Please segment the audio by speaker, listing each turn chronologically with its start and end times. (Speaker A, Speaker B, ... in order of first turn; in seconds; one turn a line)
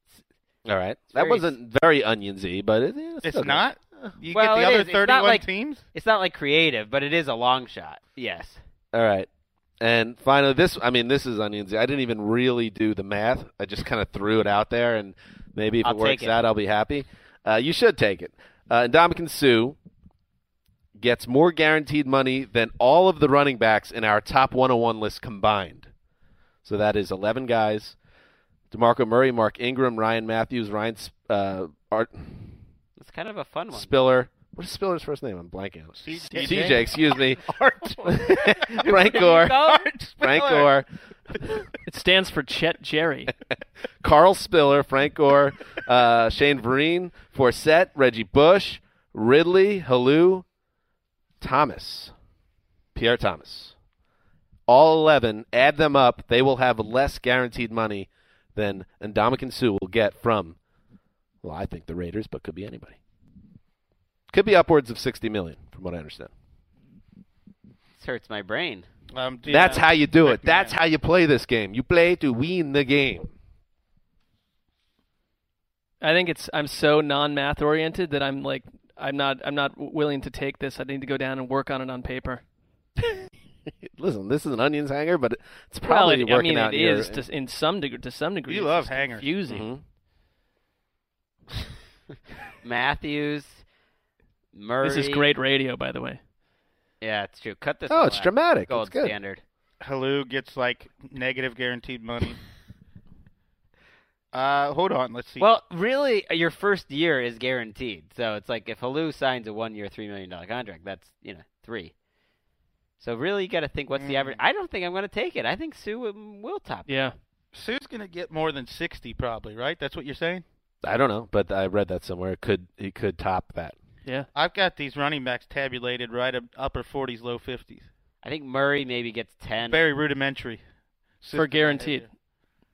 Speaker A: 0.7-4.1
Speaker B: 1.1-1.5
Speaker C: 3.2-5.8
Speaker B: 4.3-8.6
Speaker A: 8.9-9.3
Speaker A: 9.8-19.8
Speaker B: 15.8-16.4
Speaker A: 21.0-25.9
Speaker A: 26.6-28.0
Speaker A: 28.7-32.6
Speaker B: 33.0-33.9
Speaker A: 33.7-37.4
Speaker C: 36.0-40.7
Speaker D: 36.3-36.8
Speaker A: 38.1-39.6
Speaker B: 38.8-39.9
Speaker A: 40.2-40.9
Speaker D: 41.9-43.3
Speaker A: 44.0-50.5
Speaker A: 51.4-52.1
Speaker A: 53.0-53.8
Speaker A: 54.7-60.6
Speaker A: 61.4-63.0
Speaker A: 64.3-66.3
Speaker B: 68.0-68.9
Speaker C: 69.1-70.8
Speaker A: 69.5-73.3
Speaker D: 76.0-82.4
Speaker A: 83.8-87.2
Speaker D: 85.9-89.7
Speaker C: 88.5-89.4
Speaker A: 89.5-89.8
Speaker B: 92.6-93.6
Speaker B: 94.5-95.3
Speaker D: 94.8-96.2
Speaker B: 97.0-99.4
Speaker A: 97.9-99.2
Speaker C: 99.8-102.4
Speaker C: 104.3-105.5
Speaker B: 105.4-111.9
Speaker B: 113.0-116.9
Speaker C: 114.0-114.4
Speaker D: 116.9-117.2
Speaker C: 117.5-120.5
Speaker A: 120.8-123.8
Speaker C: 124.3-127.9
Speaker B: 128.2-129.9
Speaker C: 129.7-130.6
Speaker C: 131.2-132.1
Speaker D: 131.3-132.1